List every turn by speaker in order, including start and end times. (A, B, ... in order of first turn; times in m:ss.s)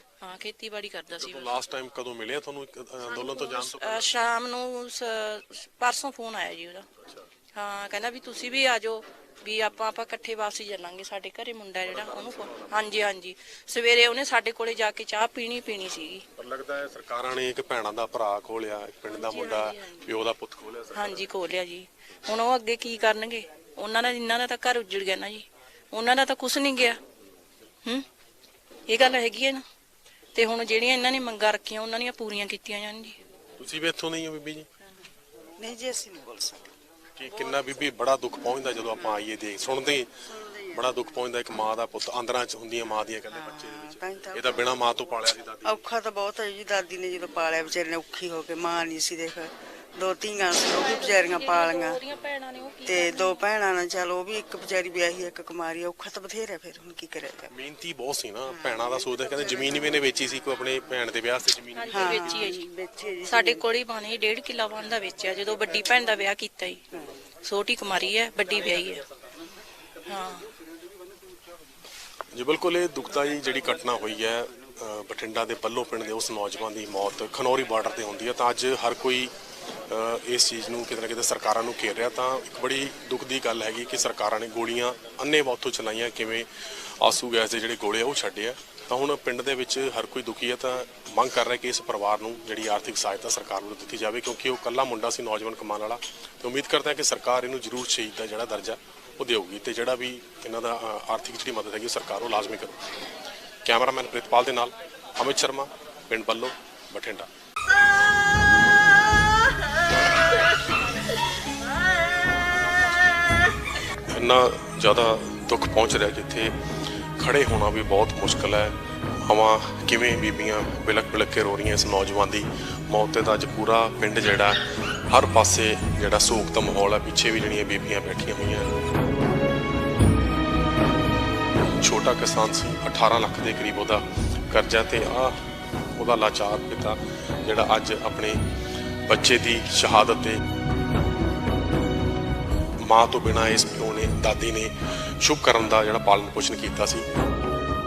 0:00.2-0:01.5 A
0:01.1-0:04.2 B
0:03.1-0:06.8 A
0:07.0-0:07.3 B
0:07.5-0:16.2 A
0:11.8-0:13.1 B
0:16.4-0:21.4 B
0:19.1-0:20.1 A
0:20.9-0:27.0 A
0:28.9-0:29.6 A
0:30.3-0:33.2 A
0:33.6-0:34.7 B
0:35.6-0:36.7 C
0:37.2-0:40.1 B
0:40.3-0:40.8 C
0:40.7-0:45.8 B
0:43.3-0:44.7 C
0:45.6-0:52.0 C
0:50.5-0:53.4 A
0:52.8-0:57.5 C
0:57.5-1:02.4 B
0:58.5-0:58.8 C
1:01.7-1:02.6 A
1:01.9-1:03.6 C
1:03.2-1:06.8 A
1:07.4-1:09.0 A
1:10.1-1:10.5 A
1:12.3-1:19.3 B
1:19.8-1:42.8 B
1:43.6-1:47.3 B
1:54.1-1:56.6 B
1:57.2-2:08.7 B
2:11.8-2:18.4 B
2:19.0-2:20.4 B
2:22.8-2:27.0 B